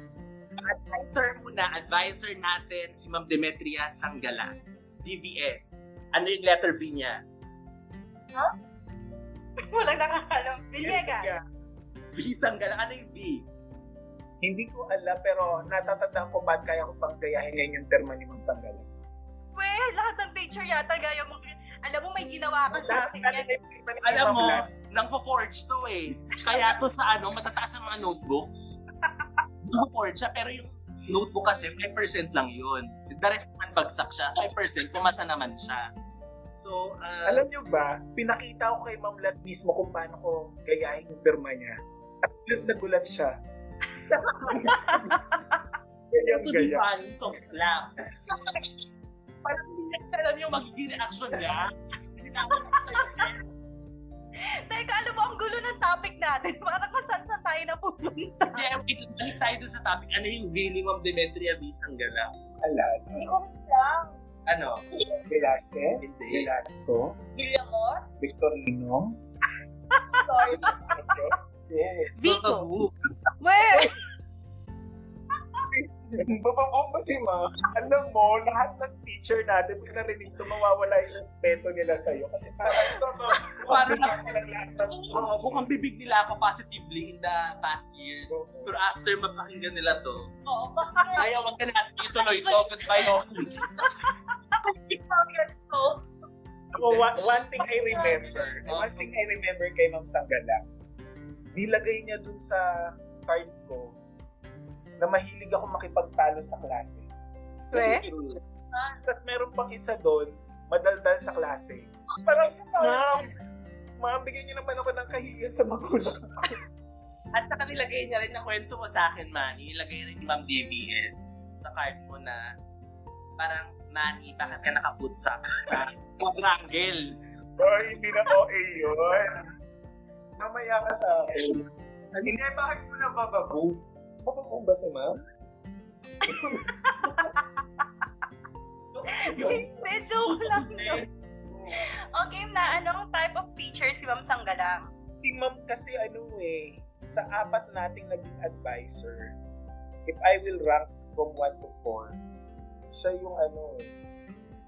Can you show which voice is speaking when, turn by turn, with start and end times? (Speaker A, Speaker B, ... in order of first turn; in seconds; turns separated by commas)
Speaker A: 0.6-7.2, Speaker B: 9.7-11.4, Speaker C: 10.8-11.4, Speaker A: 12.2-13.4, Speaker C: 14.4-18.9, Speaker B: 19.6-23.5, Speaker C: 22.7-24.7, Speaker A: 24.0-28.8, Speaker A: 29.6-35.9, Speaker A: 36.5-37.5, Speaker C: 37.2-41.8, Speaker C: 42.5-43.4, Speaker A: 44.1-44.8, Speaker C: 44.5-45.2, Speaker B: 44.6-45.2, Speaker C: 46.1-46.9, Speaker A: 46.2-48.5, Speaker A: 49.5-53.4, Speaker B: 52.7-53.2, Speaker B: 54.7-58.6, Speaker A: 58.5-62.3, Speaker C: 62.6-63.3, Speaker D: 63.1-64.2, Speaker A: 64.5-64.8, Speaker D: 64.9-65.3, Speaker C: 65.3-67.2, Speaker A: 66.0-66.5, Speaker D: 67.3-68.1, Speaker C: 68.2-69.2, Speaker B: 69.9-70.7, Speaker D: 70.2-70.8, Speaker C: 70.9-72.1, Speaker B: 72.2-72.7, Speaker A: 72.2-73.1, Speaker B: 73.4-74.0, Speaker C: 75.7-85.7, Speaker A: 83.6-84.3, Speaker A: 84.9-90.3, Speaker C: 88.3-88.8, Speaker D: 90.5-91.5, Speaker A: 91.2-93.9, Speaker D: 92.1-93.2, Speaker D: 94.6-96.0, Speaker C: 96.7-100.6, Speaker A: 96.8-97.2, Speaker D: 97.5-98.6, Speaker A: 98.7-99.1, Speaker C: 101.5-102.7, Speaker C: 103.2-104.0, Speaker C: 105.0-107.1, Speaker B: 107.7-108.0, Speaker C: 107.8-108.1, Speaker D: 108.7-109.0, Speaker C: 109.0-113.3, Speaker D: 112.2-113.3, Speaker C: 114.0-116.6, Speaker A: 117.3-122.4, Speaker A: 123.4-127.2, Speaker C: 127.6-129.4, Speaker C: 130.4-131.6, Speaker C: 132.2-135.2, Speaker B: 136.2-137.3, Speaker C: 136.3-136.6, Speaker A: 138.9-141.1, Speaker B: 139.1-141.0, Speaker C: 141.5-141.8, Speaker B: 141.8-144.9, Speaker C: 145.2-149.3, Speaker C: 150.1-152.2, Speaker C: 152.9-153.9